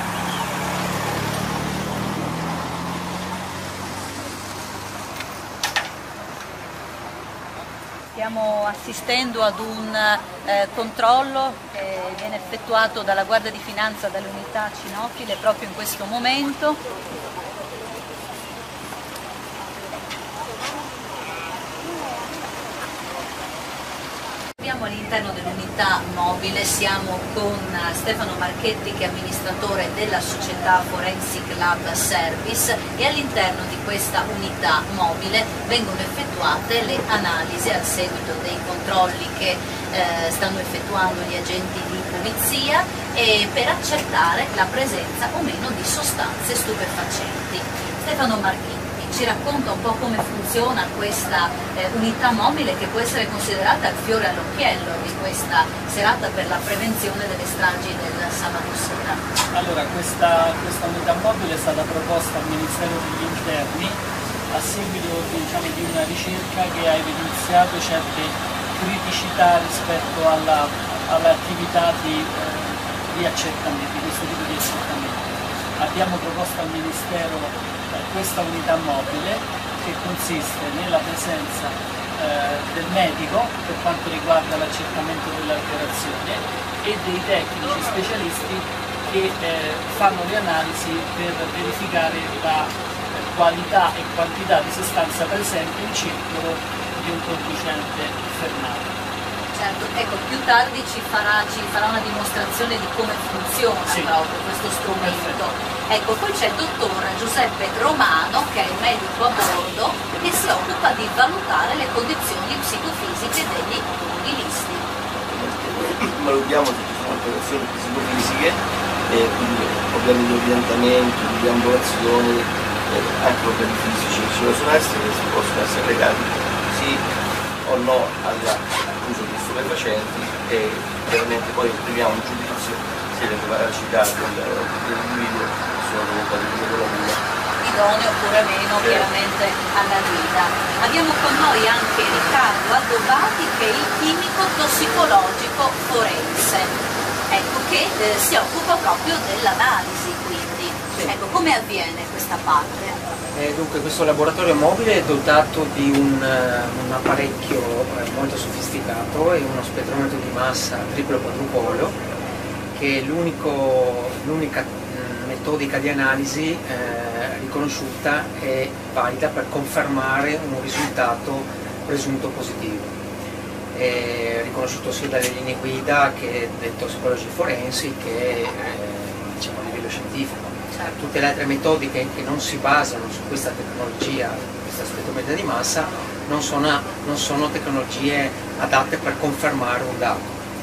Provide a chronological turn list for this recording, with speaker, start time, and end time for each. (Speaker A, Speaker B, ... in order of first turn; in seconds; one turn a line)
Speaker A: 8.1-16.8
Speaker A: 24.6-59.2
Speaker B: 59.5-64.0
Speaker B: 64.5-98.9
Speaker A: 99.5-114.9
Speaker B: 103.8-104.1
Speaker B: 104.9-105.4
Speaker C: 115.1-127.0
Speaker C: 127.6-137.2
Speaker A: 137.6-153.0
Speaker C: 138.8-139.1
Speaker D: 153.3-162.0
Speaker D: 162.7-172.9
Speaker D: 173.7-190.3